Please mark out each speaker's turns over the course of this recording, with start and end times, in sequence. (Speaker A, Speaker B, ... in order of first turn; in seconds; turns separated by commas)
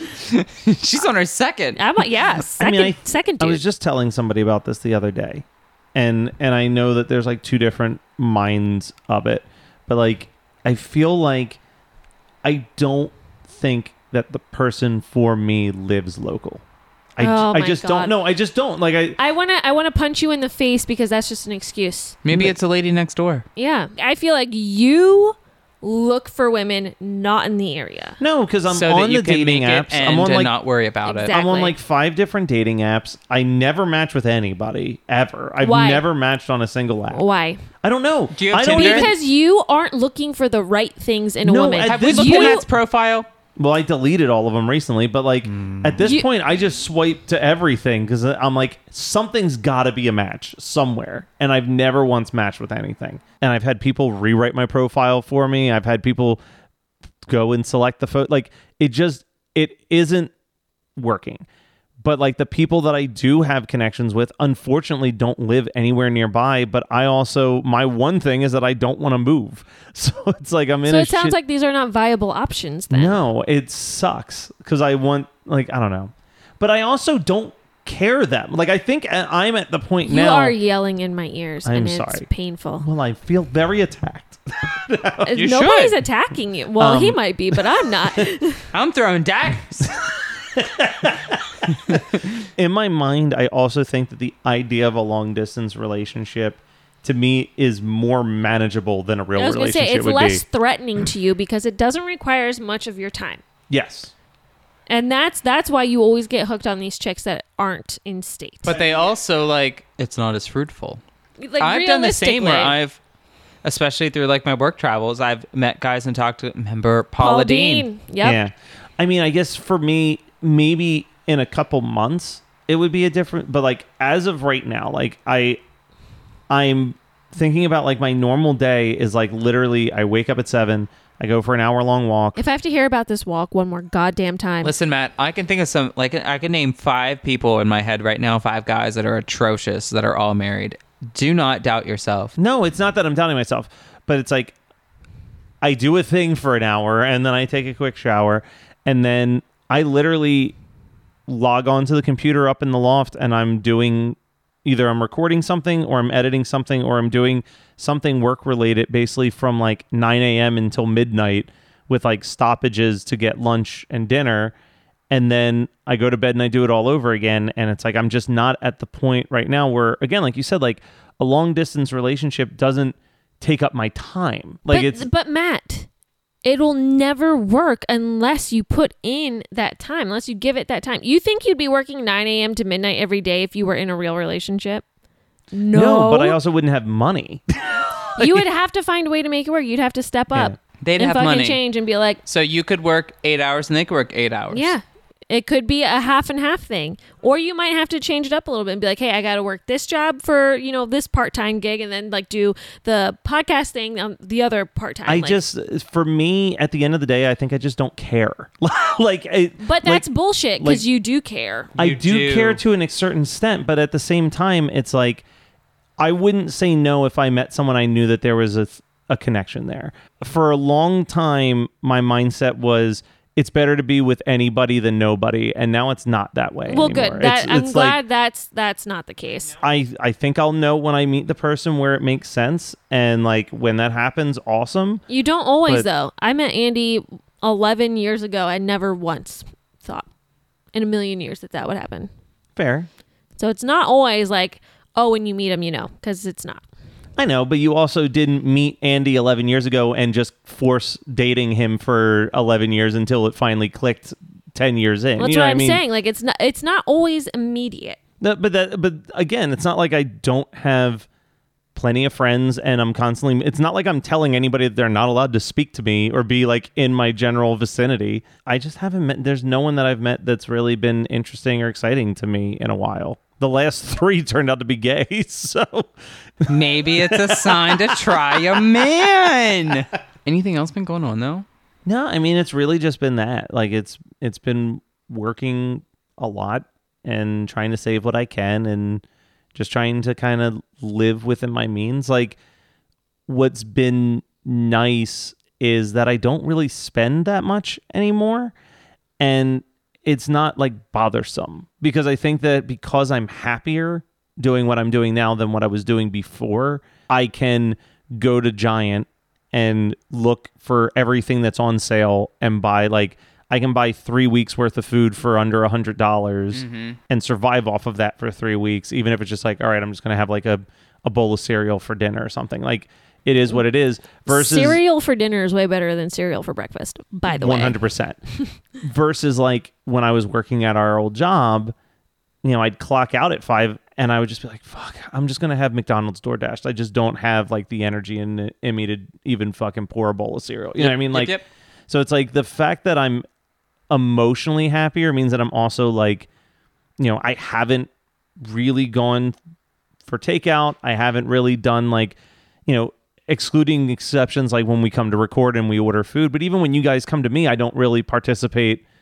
Speaker A: 0.2-1.8, Speaker B: 1.8-3.6, Speaker C: 2.5-11.6, Speaker C: 12.4-16.6, Speaker C: 17.1-19.2, Speaker B: 17.2-18.1, Speaker B: 19.2-22.2, Speaker A: 22.2-23.4, Speaker C: 22.3-22.6, Speaker B: 23.6-28.2, Speaker C: 28.2-30.5, Speaker A: 28.7-31.3, Speaker B: 31.0-31.8, Speaker C: 31.3-37.2, Speaker B: 35.6-36.0, Speaker B: 37.1-37.6, Speaker C: 37.8-39.1, Speaker A: 38.3-39.1, Speaker B: 38.7-42.6, Speaker C: 41.4-42.6, Speaker A: 41.8-43.3, Speaker C: 43.5-56.4, Speaker A: 45.4-46.0, Speaker B: 46.0-46.3, Speaker C: 57.2-60.3, Speaker C: 61.0-61.5, Speaker C: 62.0-71.4, Speaker B: 70.8-73.2, Speaker C: 72.9-80.5, Speaker B: 80.0-82.8, Speaker C: 81.6-82.3, Speaker C: 82.8-85.4, Speaker B: 85.2-88.6, Speaker A: 85.3-86.0, Speaker C: 86.8-88.2, Speaker A: 88.7-90.0, Speaker C: 90.5-92.0, Speaker C: 92.5-100.4, Speaker B: 99.3-103.4, Speaker C: 103.7-104.1, Speaker B: 104.9-108.7, Speaker A: 108.7-111.0, Speaker B: 111.4-112.7, Speaker A: 111.6-113.0, Speaker A: 113.6-117.9, Speaker B: 117.2-118.4, Speaker C: 118.2-125.6, Speaker C: 126.5-132.4, Speaker B: 132.3-134.7, Speaker A: 134.6-142.3, Speaker C: 142.3-144.5, Speaker C: 145.6-150.6, Speaker C: 151.3-164.5, Speaker C: 165.1-175.1, Speaker B: 174.7-175.9, Speaker B: 176.4-184.8, Speaker B: 185.5-186.4, Speaker C: 185.7-188.5, Speaker B: 188.2-192.2, Speaker A: 190.8-191.6, Speaker A: 192.2-194.7, Speaker B: 194.5-205.4, Speaker C: 205.1-210.0, Speaker B: 209.6-211.7, Speaker C: 210.6-210.8, Speaker C: 211.8-215.2, Speaker A: 211.8-212.6, Speaker C: 216.0-228.0, Speaker B: 226.7-229.5, Speaker C: 229.6-235.0, Speaker B: 235.1-240.1, Speaker B: 240.7-242.1, Speaker C: 242.6-242.9, Speaker B: 243.4-246.6, Speaker C: 247.2-255.8, Speaker B: 255.2-258.0, Speaker C: 258.2-261.1, Speaker C: 261.7-278.7, Speaker A: 276.5-281.4, Speaker C: 281.9-289.0, Speaker C: 289.5-292.4, Speaker C: 293.3-298.5, Speaker C: 299.2-324.8, Speaker A: 316.5-317.0, Speaker B: 324.3-327.8, Speaker C: 327.3-328.2, Speaker C: 328.8-331.7, Speaker C: 332.4-341.3, Speaker A: 340.8-341.4, Speaker C: 341.9-343.2, Speaker C: 343.9-346.3, Speaker C: 347.0-349.4, Speaker C: 350.1-358.8